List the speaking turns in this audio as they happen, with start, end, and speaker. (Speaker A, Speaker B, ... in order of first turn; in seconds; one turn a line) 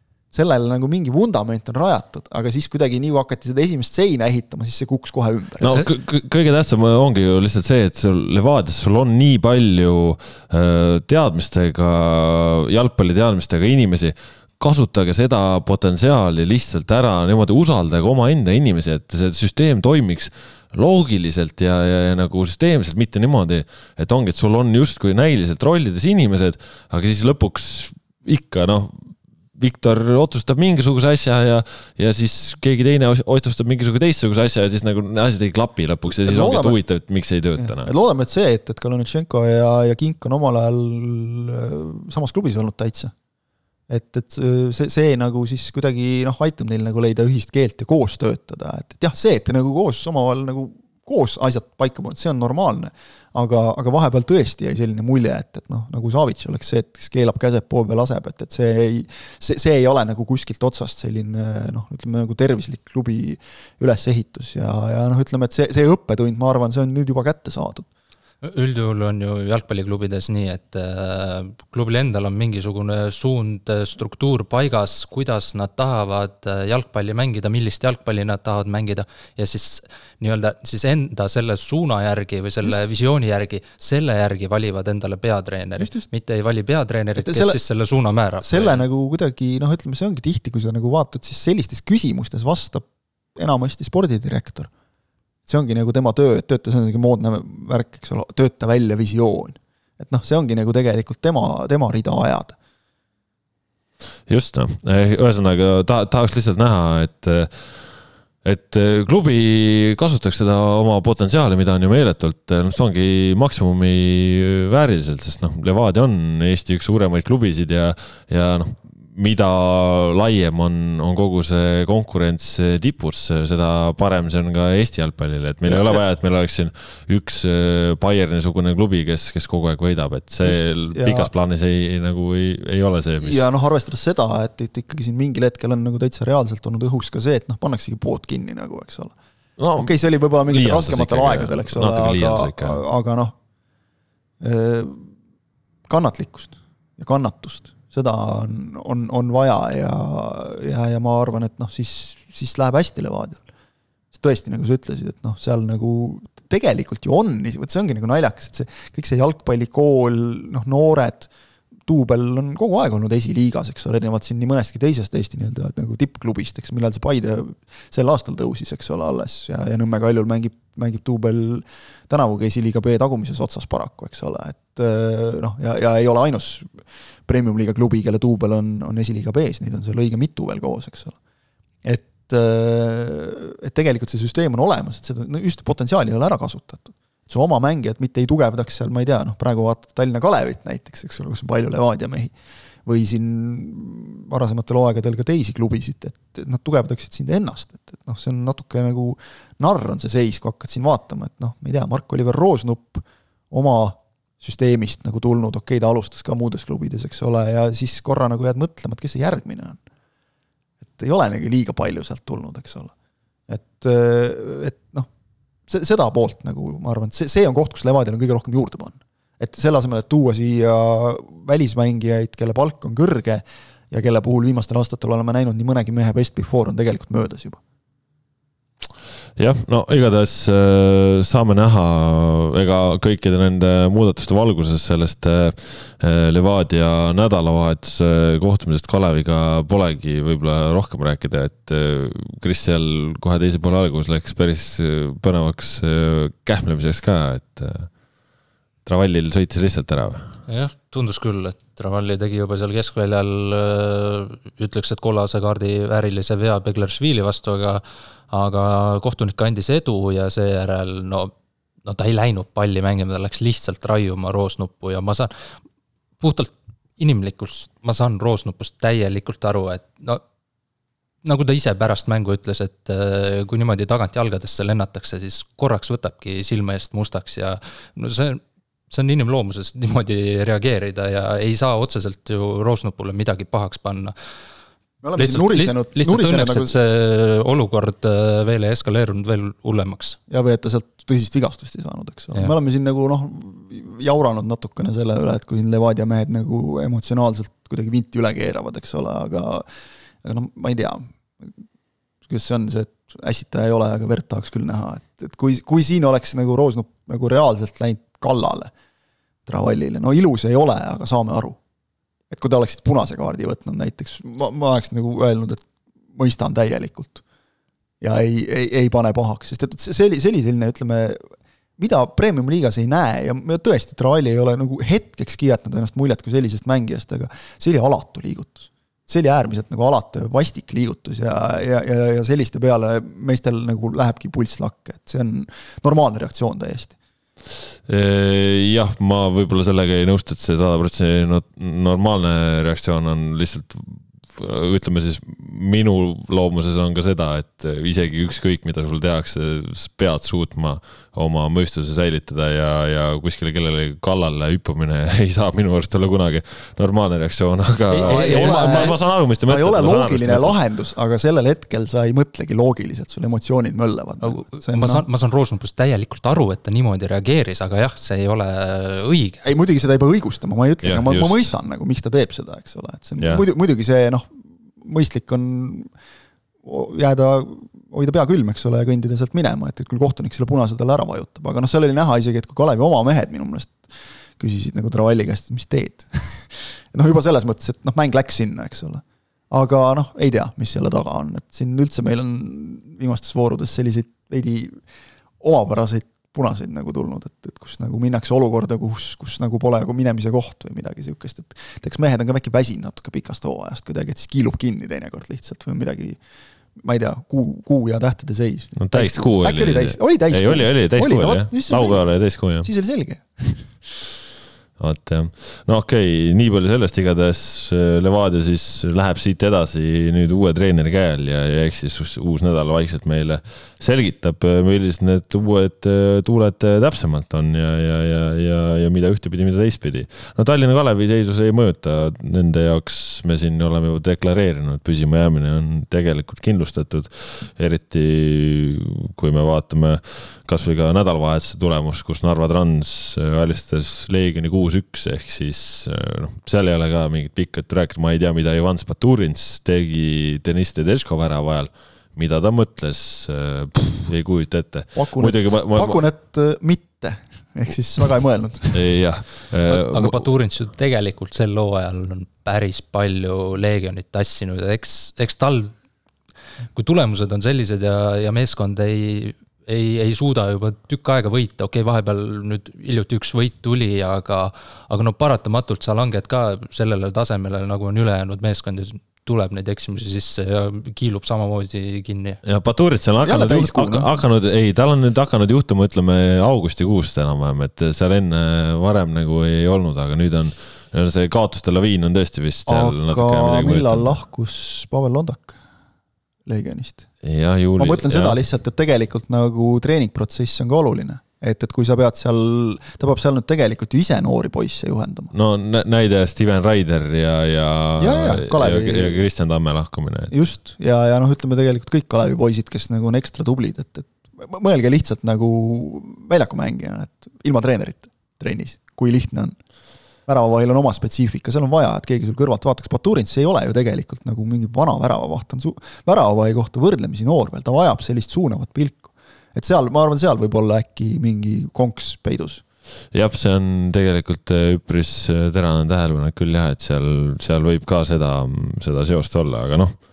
Speaker A: 0.3-5.9
Speaker B: 5.6-37.9
Speaker A: 36.2-36.8
Speaker A: 37.6-43.1
Speaker A: 43.9-67.8
Speaker C: 68.4-88.8
Speaker A: 87.2-87.6
Speaker A: 88.4-92.8
Speaker A: 93.4-94.7
Speaker A: 95.5-102.5
Speaker B: 104.3-107.5
Speaker B: 108.4-133.4
Speaker A: 125.7-126.0
Speaker A: 130.4-131.3
Speaker A: 133.2-139.2
Speaker B: 139.6-139.9
Speaker A: 139.8-143.3
Speaker B: 140.5-142.8
Speaker A: 144.4-145.1
Speaker A: 145.9-153.4
Speaker A: 154.1-161.3
Speaker A: 161.8-176.7
Speaker A: 177.2-181.2
Speaker A: 181.8-192.3
Speaker A: 192.8-209.8
Speaker A: 210.9-212.9
Speaker A: 213.5-215.1
Speaker A: 215.7-227.6
Speaker B: 229.4-247.9
Speaker B: 248.8-250.3
Speaker C: 250.5-261.3
Speaker C: 261.8-265.5
Speaker C: 266.2-270.2
Speaker C: 271.2-284.1
Speaker A: 285.0-286.7
Speaker C: 285.1-290.2
Speaker A: 290.3-299.6
Speaker A: 300.2-301.5
Speaker A: 302.2-308.7
Speaker A: 309.4-311.6
Speaker A: 312.3-315.6
Speaker A: 316.1-317.2
Speaker A: 318.0-321.2
Speaker A: 321.8-336.9
Speaker B: 337.9-360.6
Speaker C: 357.9-358.9
Speaker A: 358.0-365.0
Speaker C: 364.2-369.5
Speaker A: 369.4-374.3
Speaker B: 370.8-371.5
Speaker A: 374.8-375.9
Speaker A: 376.6-394.8
Speaker A: 395.4-406.2
Speaker A: 406.8-412.1
Speaker B: 408.8-412.7
Speaker A: 412.6-413.7
Speaker B: 414.8-456.0
Speaker A: 454.9-458.8
Speaker B: 458.7-460.3
Speaker C: 459.7-465.7
Speaker C: 466.7-482.4
Speaker B: 482.4-494.2
Speaker A: 483.2-484.1
Speaker A: 492.7-495.6
Speaker A: 496.4-497.1
Speaker B: 497.2-498.4
Speaker A: 497.8-505.3
Speaker B: 505.3-510.3
Speaker A: 508.0-509.2
Speaker A: 510.3-519.6
Speaker A: 520.3-532.6
Speaker B: 533.1-540.0